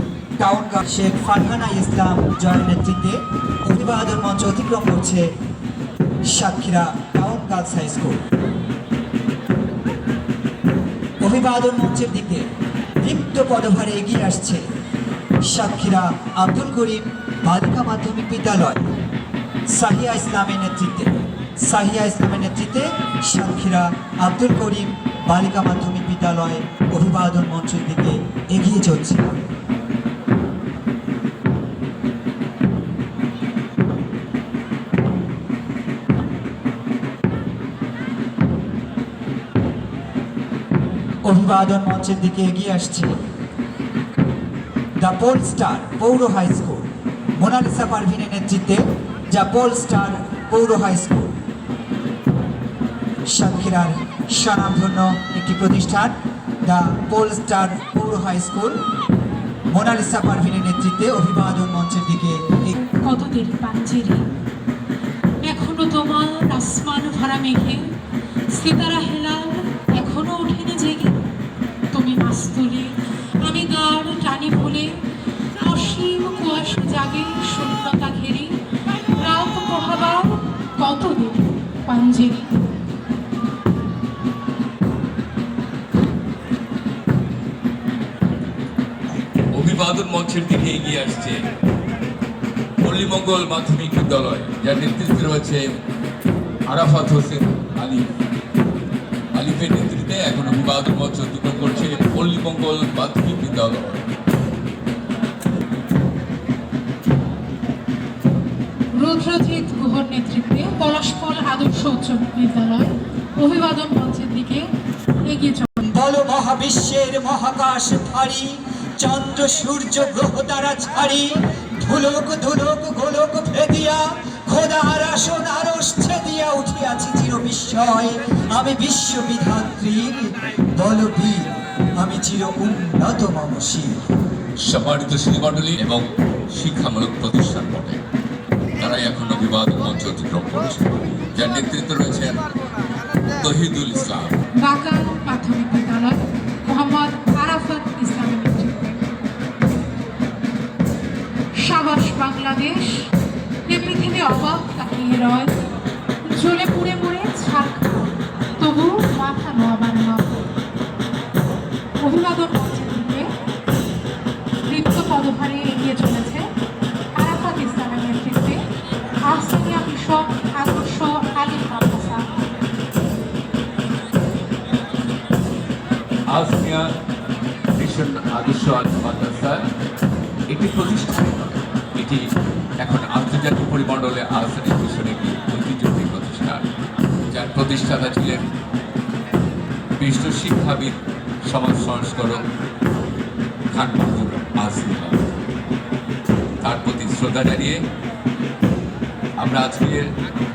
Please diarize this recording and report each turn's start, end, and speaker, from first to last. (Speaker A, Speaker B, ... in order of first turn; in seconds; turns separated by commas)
Speaker A: 0.4-5.3, Speaker A: 6.2-8.2, Speaker A: 11.2-12.5, Speaker A: 13.0-14.6, Speaker A: 15.4-18.9, Speaker A: 19.7-29.4, Speaker A: 41.2-43.2, Speaker A: 45.0-46.9, Speaker A: 47.4-51.3, Speaker A: 53.3-58.8, Speaker A: 59.7-62.7, Speaker B: 62.7-64.3, Speaker B: 65.4-67.9, Speaker B: 68.5-71.2, Speaker B: 71.9-75.0, Speaker B: 75.6-78.6, Speaker B: 79.1-82.6, Speaker C: 89.5-91.4, Speaker C: 92.8-95.6, Speaker C: 96.7-98.1, Speaker C: 99.3-104.0, Speaker B: 108.9-114.7, Speaker B: 115.2-115.9, Speaker A: 115.9-133.9, Speaker C: 134.6-138.0, Speaker C: 138.8-142.4, Speaker C: 143.3-144.4, Speaker B: 144.6-149.0, Speaker B: 151.6-153.1, Speaker B: 153.7-155.6, Speaker B: 156.2-160.4, Speaker B: 162.0-163.3, Speaker B: 164.7-166.5, Speaker B: 167.2-168.6, Speaker B: 169.3-172.3, Speaker C: 176.3-176.9, Speaker C: 177.8-179.7, Speaker C: 180.5-182.3, Speaker C: 182.8-186.7, Speaker C: 187.3-188.5, Speaker C: 190.0-192.4, Speaker C: 193.7-195.3, Speaker C: 196.6-197.8, Speaker C: 199.4-200.1